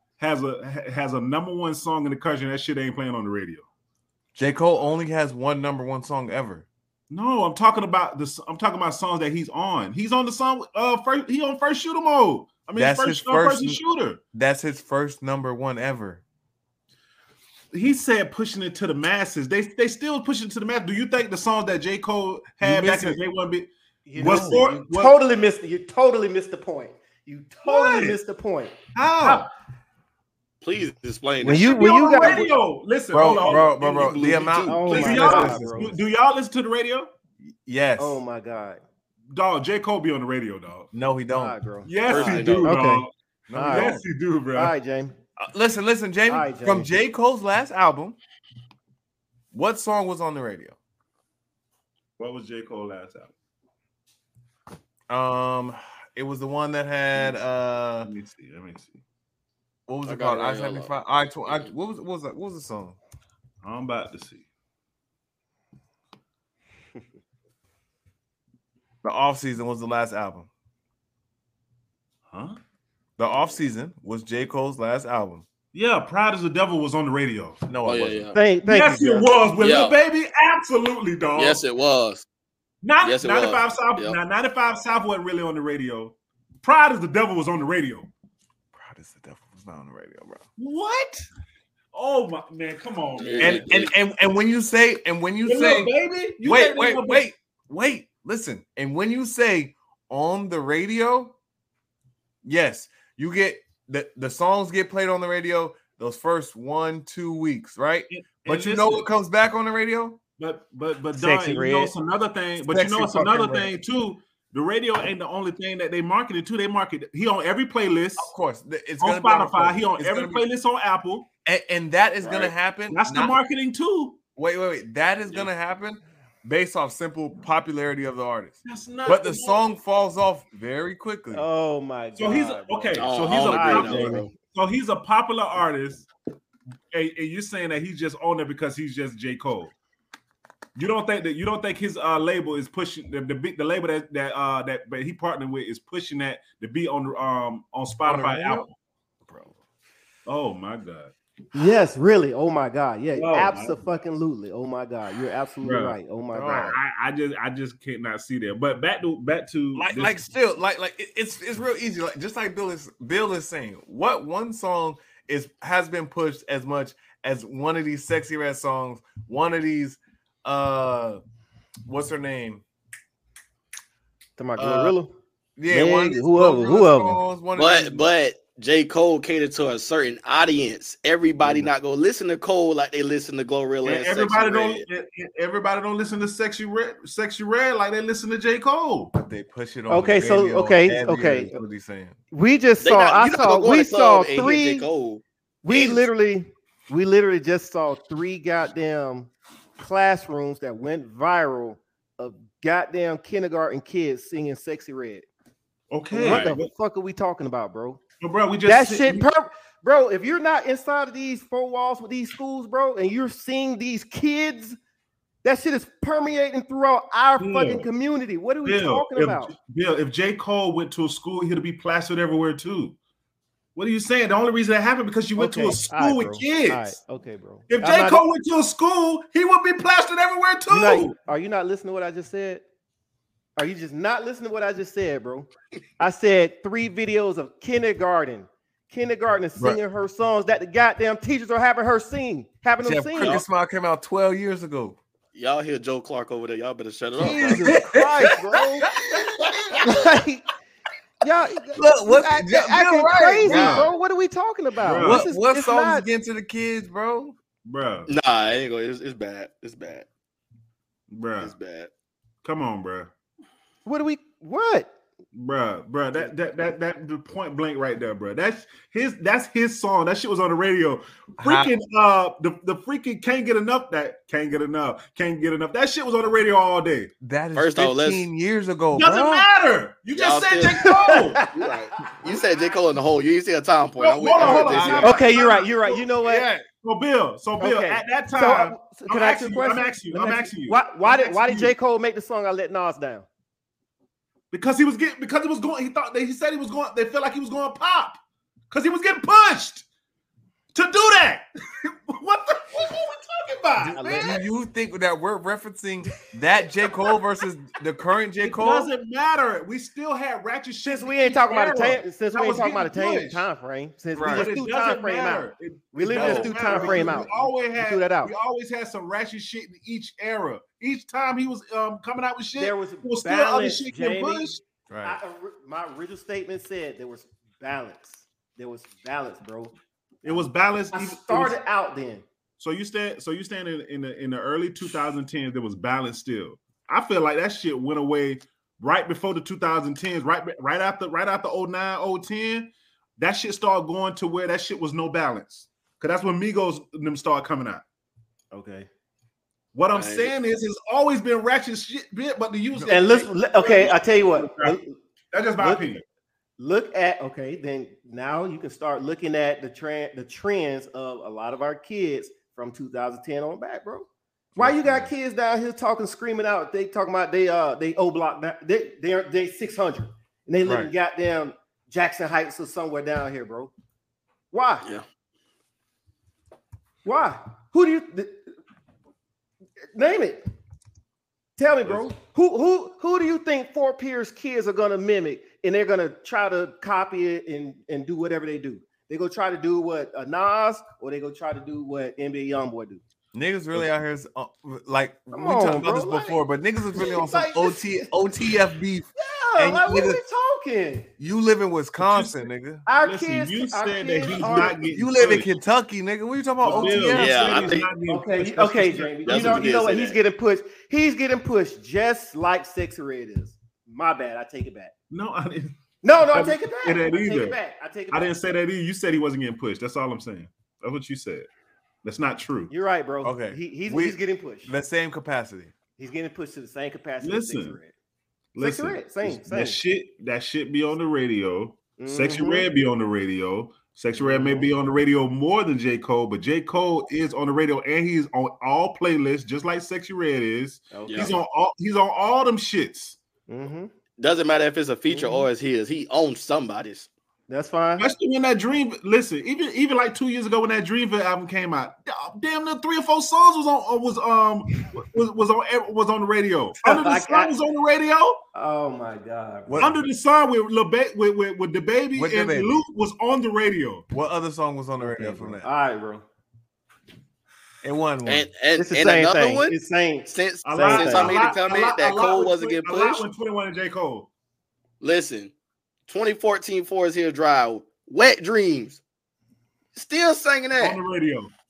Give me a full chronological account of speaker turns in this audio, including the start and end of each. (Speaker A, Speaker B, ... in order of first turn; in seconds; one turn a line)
Speaker A: 0.2-3.6
Speaker B: 4.3-6.7
Speaker A: 7.1-14.2
Speaker B: 12.8-13.8
Speaker B: 14.3-16.2
Speaker A: 17.7-25.2
Speaker B: 22.6-23.2
Speaker C: 24.1-29.4
Speaker B: 24.2-24.6
Speaker A: 27.6-28.2
Speaker A: 28.9-29.5
Speaker D: 30.6-32.5
Speaker C: 31.4-32.5
Speaker A: 31.6-37.1
Speaker B: 33.1-35.9
Speaker D: 33.3-35.0
Speaker C: 34.7-35.9
Speaker B: 37.6-38.2
Speaker C: 38.0-38.8
Speaker A: 39.3-40.9
Speaker B: 40.9-41.5
Speaker C: 41.3-43.9
Speaker A: 41.8-43.1
Speaker D: 42.0-42.8
Speaker B: 43.5-44.0
Speaker A: 43.7-44.7
Speaker C: 44.5-45.1
Speaker B: 45.4-48.2
Speaker C: 46.3-46.9
Speaker B: 49.5-50.7
Speaker A: 52.2-53.3
Speaker B: 55.1-58.1
Speaker A: 58.0-59.0
Speaker B: 59.9-63.0
Speaker D: 60.0-61.6
Speaker A: 63.6-64.4
Speaker B: 69.0-70.5
Speaker A: 72.3-72.6
Speaker B: 73.2-75.4
Speaker A: 75.7-77.7
Speaker B: 77.7-78.3
Speaker D: 77.8-78.3
Speaker C: 78.3-79.3
Speaker A: 78.6-81.6
Speaker D: 79.6-79.9
Speaker D: 81.3-82.2
Speaker A: 82.8-88.1
Speaker D: 83.0-84.2
Speaker B: 88.7-90.4
Speaker A: 90.6-91.2
Speaker A: 91.9-93.9
Speaker D: 93.2-93.9
Speaker B: 93.4-95.9
Speaker A: 95.5-97.2
Speaker B: 96.4-101.3
Speaker B: 102.4-110.2
Speaker A: 108.1-109.1
Speaker A: 110.4-118.3
Speaker C: 111.1-111.9
Speaker B: 112.7-113.7
Speaker B: 118.2-120.4
Speaker A: 119.0-121.3
Speaker B: 121.4-123.4
Speaker A: 122.9-124.2
Speaker B: 124.3-131.4
Speaker A: 128.6-129.6
Speaker C: 131.3-134.2
Speaker A: 132.2-136.1
Speaker D: 133.0-134.3
Speaker A: 136.9-139.7
Speaker A: 140.8-148.7
Speaker B: 148.1-148.6
Speaker B: 149.2-149.5
Speaker A: 150.2-151.1
Speaker C: 151.5-156.8
Speaker A: 153.2-153.8
Speaker A: 155.6-156.0
Speaker B: 156.3-156.8
Speaker A: 156.5-160.2
Speaker B: 159.7-171.2
Speaker B: 171.8-172.6
Speaker C: 174.4-175.1
Speaker B: 174.6-174.9
Speaker B: 175.6-178.1
Speaker C: 175.7-177.2
Speaker D: 177.6-184.8
Speaker A: 183.8-189.1
Speaker B: 189.1-192.2
Speaker C: 189.9-191.5
Speaker C: 192.3-194.8
Speaker D: 192.8-196.0
Speaker C: 195.6-205.2
Speaker A: 205.9-206.7
Speaker C: 206.1-208.0
Speaker B: 206.2-206.5
Speaker A: 208.2-209.3
Speaker C: 208.6-214.8
Speaker C: 215.4-219.5
Speaker A: 217.4-217.9
Speaker A: 218.6-223.0
Speaker A: 223.8-226.9
Speaker C: 225.3-228.2
Speaker A: 227.7-231.1
Speaker C: 230.7-232.6
Speaker C: 233.6-243.4
Speaker B: 242.8-245.0
Speaker D: 245.3-247.8
Speaker C: 247.2-248.9
Speaker B: 247.2-249.8
Speaker D: 249.1-249.9
Speaker C: 249.8-250.4
Speaker C: 251.2-256.1
Speaker B: 251.8-253.9
Speaker A: 253.4-253.9
Speaker A: 254.8-255.3
Speaker B: 254.9-257.3
Speaker A: 257.6-258.1
Speaker D: 258.1-260.1
Speaker A: 261.1-261.5
Speaker D: 261.4-261.9
Speaker A: 262.4-263.1
Speaker C: 263.8-264.9
Speaker A: 265.3-277.1
Speaker B: 271.4-271.7
Speaker B: 277.2-279.5
Speaker D: 277.5-278.2
Speaker A: 278.9-281.4
Speaker D: 280.1-280.9
Speaker C: 280.8-282.3
Speaker D: 281.5-285.2
Speaker A: 284.0-285.7
Speaker B: 284.4-286.6
Speaker C: 285.0-286.5
Speaker A: 286.8-291.7
Speaker C: 287.6-293.2
Speaker A: 294.5-298.2
Speaker A: 298.7-299.9
Speaker A: 300.7-304.4
Speaker C: 303.8-304.3
Speaker B: 304.0-308.9
Speaker A: 308.4-313.4
Speaker C: 310.9-318.3
Speaker B: 314.1-314.5
Speaker A: 314.2-324.6
Speaker D: 316.1-317.1
Speaker C: 322.6-324.5
Speaker B: 324.9-325.2
Speaker C: 325.0-329.7
Speaker A: 330.2-331.6
Speaker C: 330.9-332.2
Speaker A: 332.6-347.8
Speaker C: 348.5-348.9
Speaker A: 349.7-354.8
Speaker D: 349.9-350.3
Speaker C: 352.9-354.9
Speaker A: 355.3-356.0
Speaker C: 355.6-355.9
Speaker C: 356.6-373.7
Speaker B: 364.5-365.1
Speaker B: 370.6-370.9
Speaker C: 374.5-374.9
Speaker C: 377.0-378.4
Speaker C: 379.9-380.4
Speaker C: 381.6-393.0
Speaker B: 393.3-400.2
Speaker C: 395.3-396.4
Speaker C: 396.9-398.1
Speaker C: 399.1-401.1
Speaker B: 401.2-402.8
Speaker A: 402.0-402.4
Speaker C: 402.9-404.8
Speaker A: 403.0-405.5
Speaker B: 404.9-407.7
Speaker A: 406.6-409.7
Speaker C: 406.6-407.3
Speaker D: 407.0-407.9
Speaker C: 408.1-414.9
Speaker D: 409.2-410.2
Speaker A: 415.1-415.8
Speaker C: 416.0-418.4
Speaker A: 416.3-417.6
Speaker A: 418.1-421.5
Speaker A: 422.0-422.7
Speaker C: 422.7-424.7
Speaker B: 423.2-425.7
Speaker C: 426.0-427.9
Speaker A: 427.2-427.8
Speaker A: 428.5-443.2
Speaker C: 428.6-429.8
Speaker C: 432.0-432.6
Speaker C: 434.1-434.7
Speaker C: 440.9-441.3
Speaker D: 441.1-441.3
Speaker C: 443.5-443.9
Speaker D: 444.2-447.1
Speaker C: 445.1-445.5
Speaker C: 447.5-448.1
Speaker A: 448.0-458.4
Speaker C: 456.8-457.5
Speaker C: 458.5-459.9
Speaker B: 459.7-460.0
Speaker A: 459.8-464.1
Speaker B: 462.1-462.8
Speaker B: 464.1-465.7
Speaker C: 465.0-466.2
Speaker B: 467.8-468.5
Speaker D: 468.2-469.7
Speaker C: 468.7-471.4
Speaker D: 470.3-473.2
Speaker A: 470.6-474.3
Speaker D: 475.0-475.5
Speaker D: 476.1-479.0
Speaker D: 479.9-481.0
Speaker A: 480.8-481.5